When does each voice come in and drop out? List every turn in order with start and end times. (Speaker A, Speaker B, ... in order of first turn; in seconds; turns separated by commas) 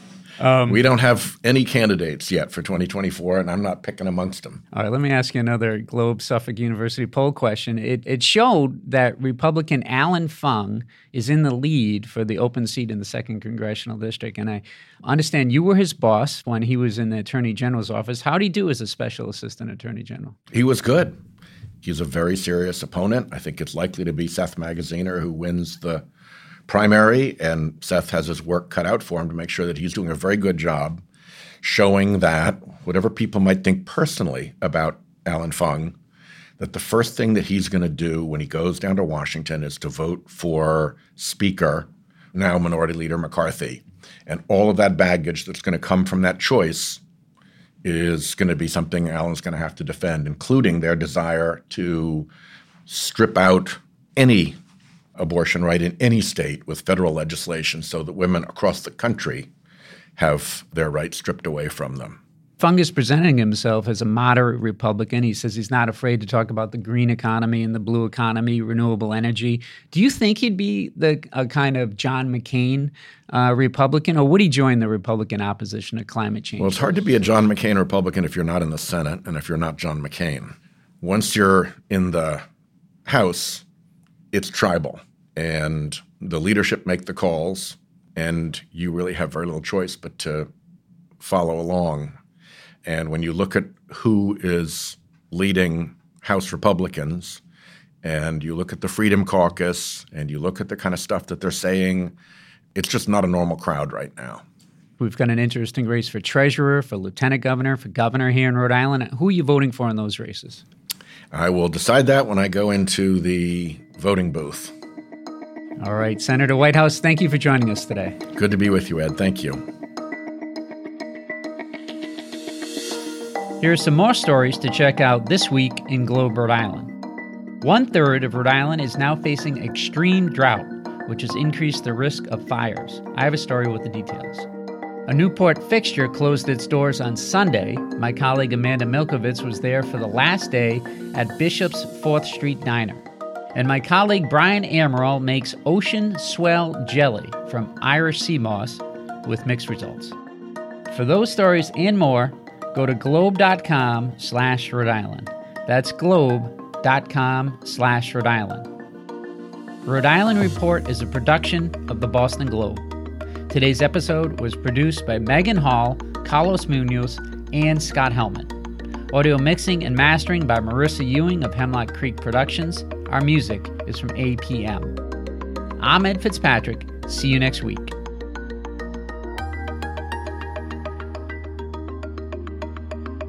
Speaker A: 0.4-0.8, Speaker B: 0.7-4.6, Speaker A: 4.7-20.4, Speaker B: 20.5-21.1, Speaker B: 21.8-26.1, Speaker B: 26.7-31.0, Speaker B: 31.6-36.0, Speaker B: 36.6-47.0, Speaker B: 47.8-52.3, Speaker B: 52.9-54.6, Speaker B: 55.2-59.5, Speaker B: 60.2-62.2, Speaker A: 62.6-76.9, Speaker B: 76.6-82.4, Speaker B: 83.1-83.7, Speaker B: 84.3-90.5, Speaker B: 91.2-92.2, Speaker B: 92.8-97.4, Speaker B: 98.0-102.2, Speaker B: 102.8-104.4, Speaker A: 105.0-110.6, Speaker B: 111.3-114.7, Speaker A: 115.8-118.2, Speaker B: 118.4-119.6, Speaker A: 123.6-126.9, Speaker A: 127.6-134.5, Speaker A: 135.1-143.0, Speaker A: 143.6-150.2, Speaker A: 150.9-158.7, Speaker A: 159.8-162.8, Speaker A: 163.5-168.5, Speaker A: 169.1-175.0, Speaker A: 175.8-177.9